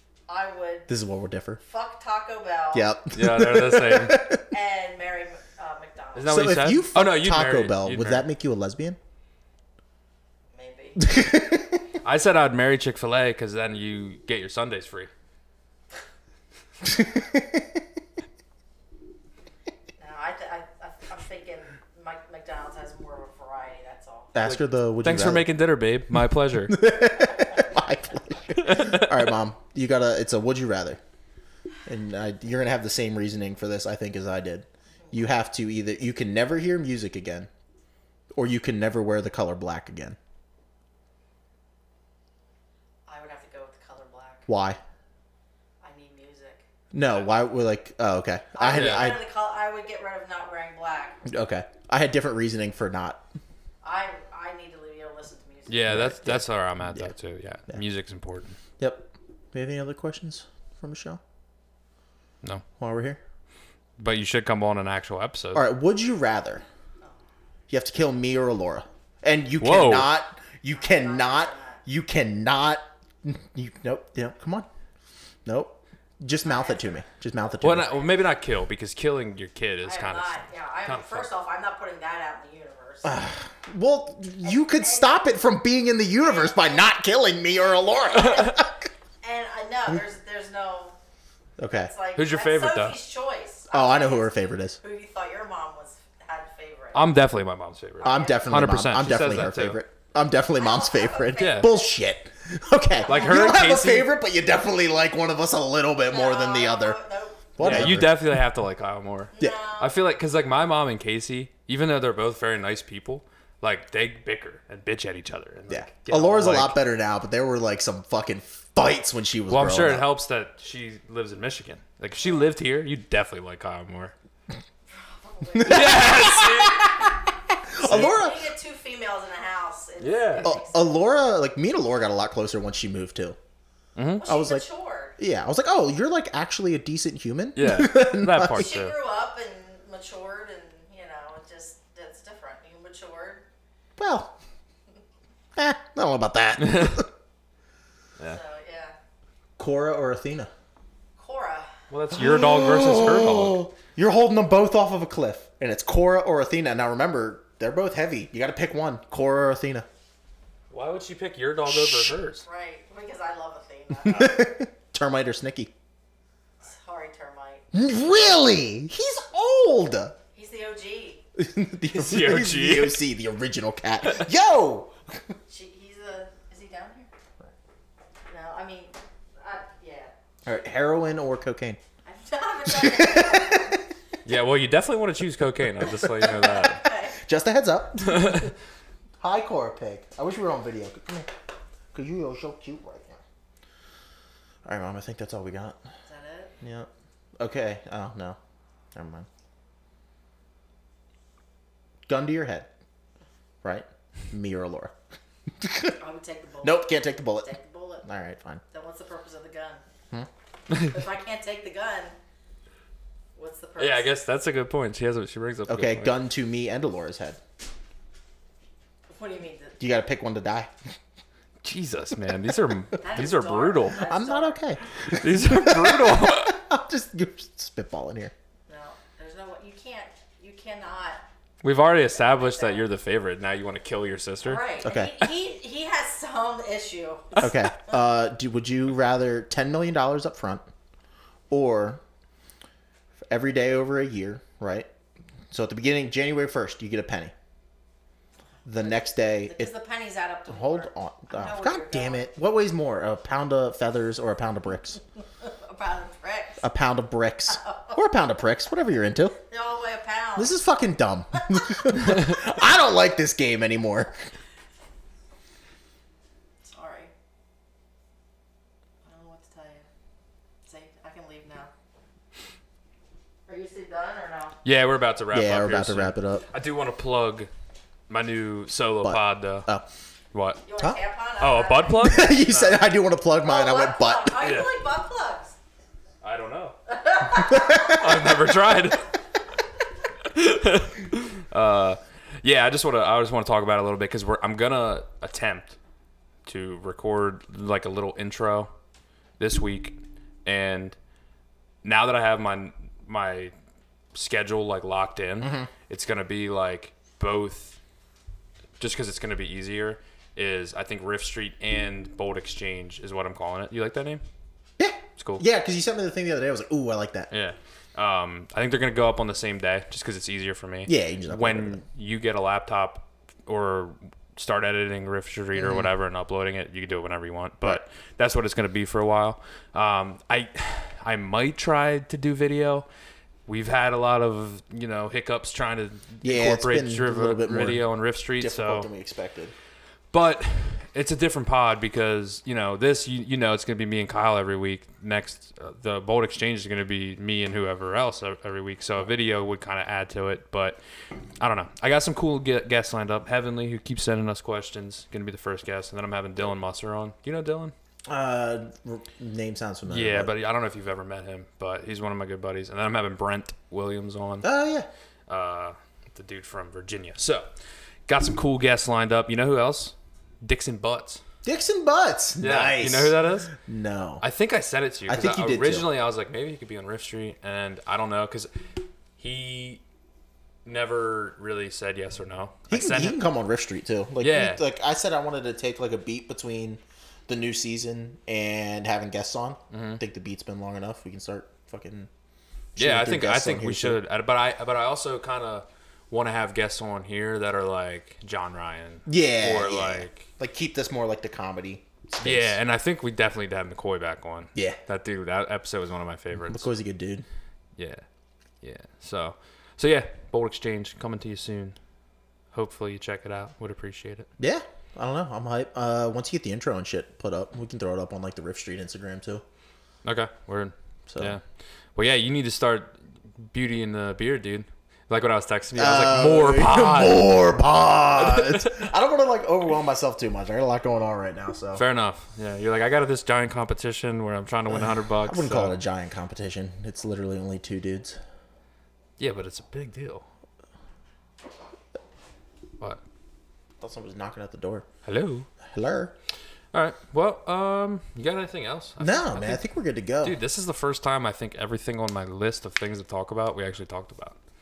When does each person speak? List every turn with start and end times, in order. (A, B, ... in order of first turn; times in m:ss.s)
0:00.3-0:00.9 A
0:00.9-0:01.6 B
0:01.6-0:02.9 A
0:02.7-0:04.4 B
0:03.1-0:04.2 C
0:04.5-0:06.4 A
0:06.1-0:08.2 C
0:06.3-0:09.0 B
0:10.5-0:11.0 A
0:11.0-0:11.8 B
0:12.0-0:15.1 C
0:16.8-0:17.8 B
0:20.0-0:24.4 A
0:24.3-0:25.5 B
0:24.4-0:26.8 C
0:26.7-0:31.0 B
0:28.6-0:29.1 C
0:31.8-0:37.5 B
0:38.3-0:40.2 B
0:43.1-0:44.5 A
0:44.5-0:44.8 B
0:45.8-0:46.6 A
0:46.9-0:49.2 B
0:48.6-0:51.2 A
0:48.7-0:49.1 C
0:51.2-0:53.2 B
0:53.8-0:56.0 A
0:55.7-0:58.6 C
0:55.9-0:57.1 B
0:58.8-1:01.2 B
1:02.8-1:03.2 B
1:04.0-1:05.6 C
1:05.5-1:06.6 B
1:07.7-1:14.7 B
1:09.6-1:10.1 C
1:10.7-1:11.8 A
1:15.4-1:18.0 B
1:16.4-1:17.1 A
1:17.6-1:21.3 C
1:17.9-1:18.3 A
1:19.8-1:23.2 A
1:23.0-1:28.9 B
1:24.4-1:25.2 A
1:26.2-1:26.9 A
1:27.5-1:28.6 A
1:29.2-1:30.9 A
1:31.6-1:31.9 B
1:31.8-1:37.1 A
1:32.1-1:33.0 C
1:33.7-1:34.8 B
1:36.9-1:39.8 C
1:38.0-1:47.0 B
1:38.0-1:38.4 A
1:40.6-1:41.8 A
1:41.4-1:41.7 C
1:43.0-1:43.5 A
1:43.1-1:44.1 C
1:46.1-1:47.9 A
1:47.6-1:48.2 B
1:47.6-1:56.8 C
1:49.3-1:50.0 A
1:55.7-2:00.1 B
1:59.5-2:04.1 C
2:04.9-2:06.4 A
2:05.5-2:06.9 B
2:05.6-2:06.9 C
2:07.7-2:08.5 B
2:07.7-2:10.9 A
2:10.0-2:10.5 C
2:10.4-2:13.4 B
2:14.0-2:14.3 C
2:14.2-2:15.2 A
2:14.2-2:14.6 B
2:15.2-2:18.7 B
2:17.6-2:18.9 C
2:18.5-2:23.4 A
2:24.0-2:24.3 B
2:25.6-2:27.1 B
2:26.6-2:27.0 C
2:28.2-2:28.9 A
2:29.6-2:30.5 B
2:31.2-2:31.7 A
2:31.9-2:33.6 C
2:32.1-2:39.9 B
2:40.7-2:42.4 C
2:41.6-2:42.2 B
2:42.4-2:44.5 A
2:44.0-2:45.7 B
2:46.6-2:47.6 A
2:47.7-2:50.2 B
2:50.3-2:51.2 A
2:51.4-2:55.2 B
2:51.9-2:53.0 C
2:55.5-2:57.1 A
2:58.3-3:00.1 A
3:00.4-3:01.8 B
3:02.0-3:03.8 A
3:02.6-3:03.8 B
3:04.2-3:06.8 C
3:06.2-3:07.2 A
3:07.2-3:08.5 B
3:08.1-3:08.5 C
3:09.2-3:11.3 B
3:11.9-3:13.2 B
3:14.6-3:15.8 B
3:16.1-3:16.5 A
3:16.6-3:18.4 B
3:18.9-3:19.3 B
3:22.1-3:22.7 B
3:23.6-3:24.9 B
3:25.6-3:26.0 B
3:26.0-3:28.0 A
3:26.6-3:27.5 B
3:28.0-3:28.6 B
3:28.7-3:29.8 A
3:30.8-3:32.1 A
3:33.4-3:34.1 A
3:33.8-3:36.2 C
3:35.7-3:37.4 B
3:39.1-3:39.8 A
3:39.8-3:41.0 B
3:41.6-3:44.0 C
3:43.0-3:44.6 A
3:44.0-3:48.3 B
3:45.0-3:46.6 C
3:48.7-3:51.2 A
3:51.6-3:54.6 C
3:51.9-3:52.9 A
3:54.4-3:58.0 A
3:54.8-3:55.2 B
3:57.4-4:00.6 B
4:01.5-4:02.0 B
4:03.3-4:04.9 B
4:05.5-4:07.3 B
4:08.6-4:09.7 B
4:08.7-4:12.2 A
4:10.5-4:15.0 B
4:15.4-4:16.6 A
4:16.6-4:19.4 B
4:17.5-4:18.0 A
4:19.5-4:20.6 A
4:20.4-4:24.3 B
4:21.5-4:21.8 A
4:26.6-4:27.1 A
4:29.0-4:29.8 A
4:30.6-4:31.7 A
4:33.5-4:34.6 A
4:34.6-4:37.5 C
4:35.3-4:36.4 B
4:38.1-4:39.7 C
4:39.0-4:39.8 B
4:40.3-4:40.6 C
4:40.6-4:42.2 A
4:41.4-4:42.8 C
4:42.0-4:44.4 B
4:43.4-4:45.6 A
4:44.4-4:44.7 C
4:46.2-4:46.8 C
4:46.9-4:47.9 A
4:47.4-4:48.2 B
4:47.6-4:49.0 C
4:50.3-4:55.8 C
4:56.4-4:58.7 C
4:59.4-5:01.0 C
5:01.8-5:03.5 C
5:04.1-5:07.8 C
5:05.4-5:05.7 B
5:08.8-5:14.2 C
5:14.8-5:17.3 B
5:15.2-5:15.4 C
5:17.3-5:32.8 C
5:20.8-5:21.8 B
5:25.5-5:25.9 B
5:33.5-5:38.9 C
5:36.2-5:39.5 B
5:40.1-5:50.8 C
5:51.4-5:57.7 C
5:58.1-6:00.3 B
5:59.8-6:04.5 C
6:04.4-6:04.9 B
6:05.3-6:07.5 C
6:08.1-6:11.2 C
6:11.4-6:14.2 B
6:12.4-6:13.5 C
6:14.2-6:18.5 C
6:15.1-6:15.9 B
6:19.2-6:19.8 C
6:20.6-6:23.2 C
6:22.7-6:32.1 B
6:24.2-6:24.6 C
6:29.7-6:30.0 C
6:32.8-6:34.0 B
6:32.8-6:40.3 C
6:39.0-6:42.6 B
6:42.2-6:46.7 C
6:46.5-6:47.2 B
6:47.8-6:48.0 C
6:48.6-6:51.8 C
6:52.5-6:54.3 C
6:54.4-6:59.4 B
7:00.0-7:01.4 C
7:01.1-7:01.4 B
7:02.0-7:07.3 C
7:05.7-7:11.8 B
7:08.2-7:08.9 C
7:11.7-7:15.8 C
7:14.7-7:18.2 B
7:19.2-7:20.2 C
7:23.8-7:24.8 B
7:25.0-7:25.5 C
7:25.6-7:26.1 B
7:26.7-7:29.6 C
7:29.0-7:30.4 B
7:30.2-7:34.4 C